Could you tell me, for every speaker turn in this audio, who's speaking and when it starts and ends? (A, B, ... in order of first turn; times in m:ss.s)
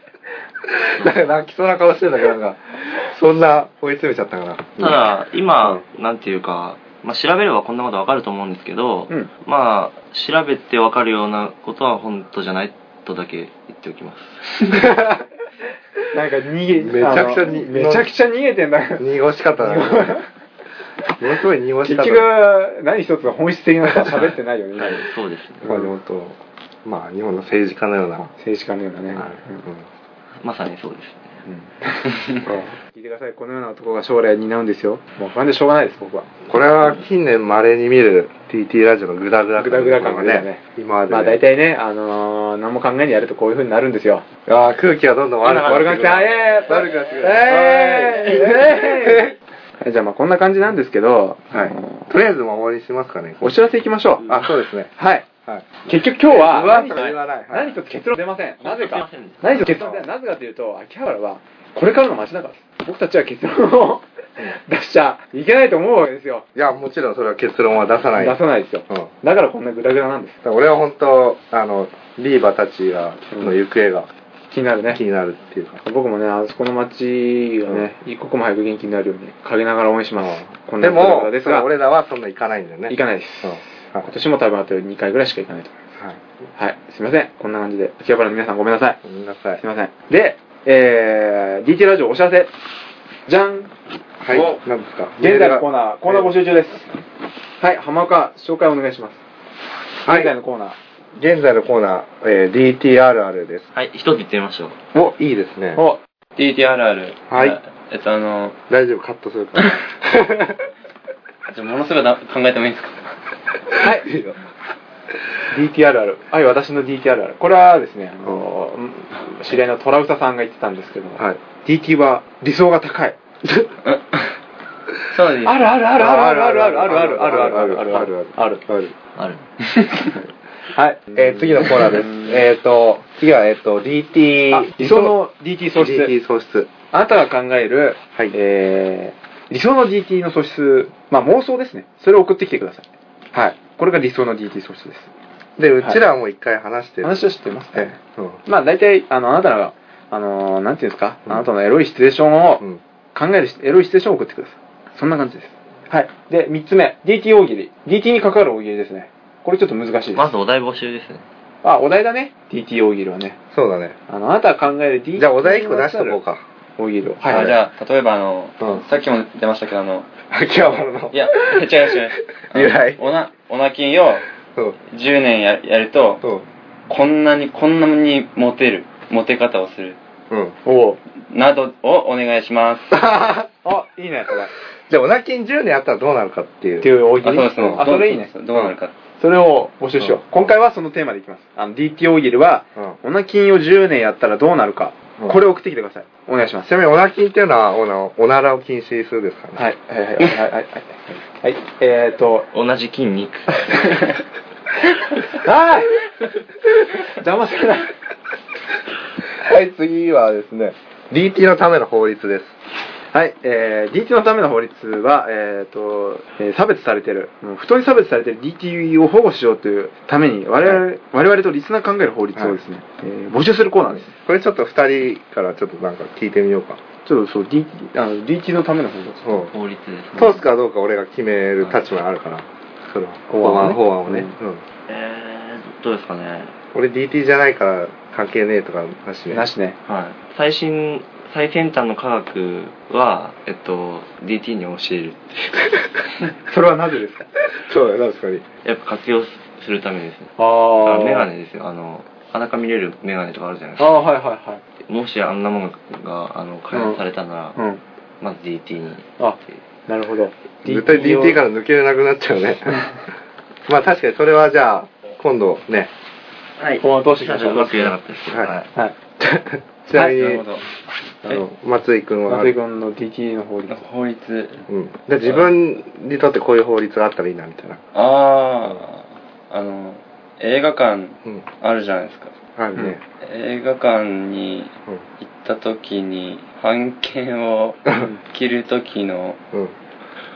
0:00.7-0:05.0 A
0:04.8-0:14.7 B
0:14.8-0:15.1 A
0:16.1-0:19.1 C
0:16.8-0:18.1 A
0:19.0-0:20.2 A
0:19.6-0:20.3 C
0:21.2-0:22.3 A
0:21.8-0:25.1 C
0:24.8-0:25.7 B
0:25.6-0:28.3 A
0:28.4-0:29.6 C
0:29.1-0:29.8 A
0:30.4-0:31.4 B
0:31.5-0:32.3 C
0:32.5-0:32.7 A
0:32.9-0:36.3 C
0:36.5-0:41.4 A
0:39.6-0:44.3 C
0:44.5-0:49.3 A
0:45.4-0:46.0 B
0:45.6-0:52.1 C
0:51.5-0:53.6 A
0:53.4-0:54.4 C
0:54.3-0:54.9 A
0:55.0-0:55.3 C
0:55.8-1:06.4 C
0:56.3-0:57.8 A
0:58.6-0:59.9 B
0:59.7-1:00.0 A
1:06.6-1:08.4 A
1:08.2-1:10.4 C
1:10.4-1:14.1 A
1:13.3-1:13.6 C
1:14.5-1:15.0 C
1:14.9-1:15.8 A
1:15.8-1:21.7 C
1:20.2-1:24.1 A
1:22.9-1:25.8 C
1:26.6-1:29.0 C
1:29.0-1:29.6 A
1:29.6-1:32.5 C
1:33.3-1:33.7 C
1:34.2-1:36.3 A
1:34.3-1:34.6 C
1:35.2-1:36.9 C
1:37.6-1:39.2 C
1:40.0-1:40.8 C
1:40.0-1:40.3 A
1:41.2-1:43.6 A
1:43.8-1:44.8 B
1:45.0-1:45.8 A
1:45.8-1:46.0 C
1:46.4-1:48.6 D
1:47.3-1:47.6 A
1:48.7-1:50.6 A
1:51.5-1:53.2 D
1:53.8-1:54.1 C
1:54.0-1:54.4 A
1:55.5-2:03.2 C
2:03.8-2:04.3 D
2:05.1-2:05.7 D
2:05.4-2:08.6 C
2:06.0-2:09.0 A
2:10.1-2:12.4 C
2:11.1-2:15.2 A
2:14.5-2:16.2 C
2:15.8-2:16.7 A
2:16.9-2:25.1 C
2:25.6-2:27.2 A
2:27.0-2:32.6 C
2:27.8-2:28.4 A
2:33.2-2:40.3 C
2:40.2-2:41.2 B
2:41.6-2:43.4 C
2:43.5-2:44.0 A
2:44.1-2:46.2 C
2:45.2-2:46.4 A
2:46.8-2:47.5 C
2:47.2-2:50.1 D
2:50.3-2:51.7 A
2:51.1-2:54.3 D
2:52.5-2:53.0 A
2:54.9-2:56.2 D
2:56.9-3:00.0 D
3:00.3-3:00.6 A
3:00.6-3:01.0 C
3:01.2-3:03.1 D
3:02.9-3:03.4 A
3:03.6-3:04.5 C
3:04.9-3:06.9 A
3:06.8-3:08.3 C
3:07.2-3:08.9 D
3:07.6-3:07.9 A
3:09.2-3:16.7 C
3:10.0-3:10.4 A
3:16.6-3:19.7 A
3:19.6-3:22.5 C
3:22.5-3:24.0 B
3:25.2-3:26.0 C
3:27.1-3:27.9 C
3:29.4-3:32.6 A
3:33.1-3:44.1 C
3:44.1-3:46.8 A
3:47.0-3:49.5 C
3:49.5-3:50.4 B
3:50.1-3:54.6 A
3:51.6-3:51.9 B
3:53.3-3:54.3 C
3:54.9-3:56.5 B
3:56.7-3:59.4 A
3:59.3-3:59.8 C
3:59.9-4:05.9 B
4:06.5-4:07.3 C
4:07.7-4:08.4 A
4:08.6-4:14.0 B
4:10.4-4:11.3 C
4:13.8-4:14.6 C
4:14.9-4:17.6 B
4:16.7-4:17.0 C
4:18.2-4:19.1 B
4:19.2-4:21.4 C
4:20.6-4:22.8 A
4:23.7-4:25.9 A
4:26.6-4:28.7 B
4:26.8-4:27.9 C
4:29.2-4:30.4 A
4:29.9-4:30.2 C
4:30.1-4:30.6 D
4:31.2-4:32.6 A
4:32.3-4:33.8 C
4:33.7-4:34.7 D
4:34.7-4:37.8 A
4:37.9-4:42.4 D
4:42.6-4:43.0 A
4:43.2-4:49.4 D